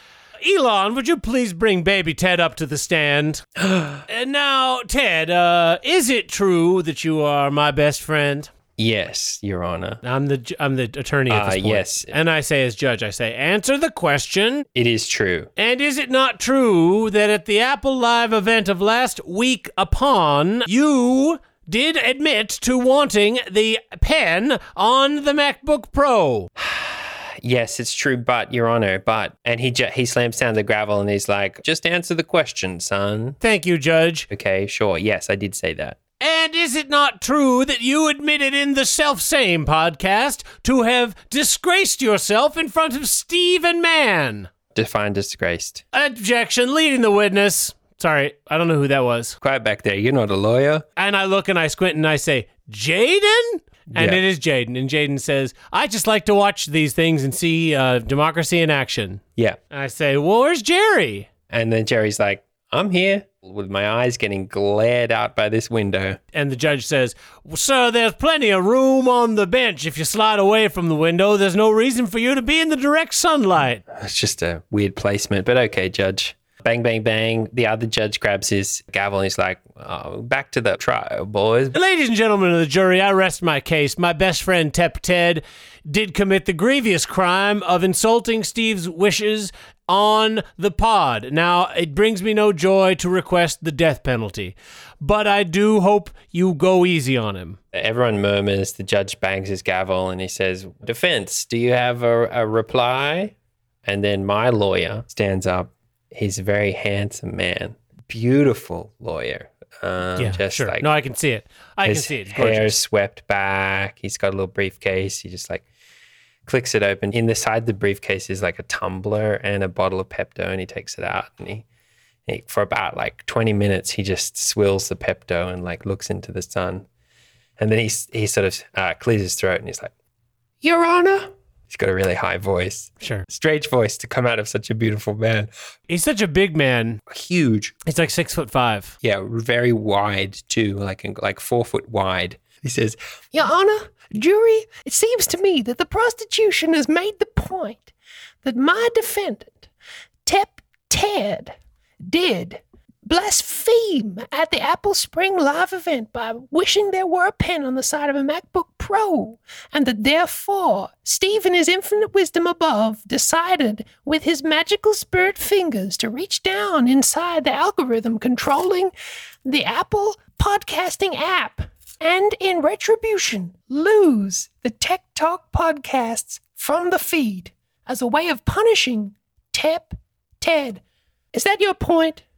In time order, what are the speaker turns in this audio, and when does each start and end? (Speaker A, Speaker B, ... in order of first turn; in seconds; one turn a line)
Speaker A: 0.4-3.5
Speaker B: 3.6-4.0
Speaker A: 4.1-8.5
Speaker B: 8.8-10.0
Speaker A: 10.0-14.7
Speaker B: 11.3-12.1
Speaker B: 14.8-15.5
Speaker A: 15.6-26.5
Speaker B: 26.6-33.4
Speaker A: 33.4-34.3
Speaker B: 34.3-36.0
Speaker A: 36.2-44.5
Speaker B: 44.7-45.8
Speaker A: 45.9-49.4
Speaker B: 49.4-50.9
Speaker A: 51.0-61.3
Speaker B: 53.9-54.2
Speaker B: 61.5-66.2
Speaker A: 66.3-73.8
Speaker B: 73.9-81.8
Speaker A: 81.7-97.6
Speaker B: 97.7-103.3
Speaker B: 103.8-110.9
Speaker A: 110.2-112.8
Speaker B: 111.8-115.7
Speaker B: 116.5-121.7
Speaker B: 122.3-126.9
Speaker B: 127.6-129.9
Speaker B: 130.6-135.5
Speaker A: 133.0-133.3
Speaker A: 135.9-137.0
Speaker B: 137.1-137.8
Speaker A: 137.8-138.9
Speaker B: 139.0-147.9
Speaker B: 148.4-149.7
Speaker B: 150.3-151.5
Speaker B: 152.1-168.9
Speaker B: 169.5-180.8
Speaker B: 181.3-182.2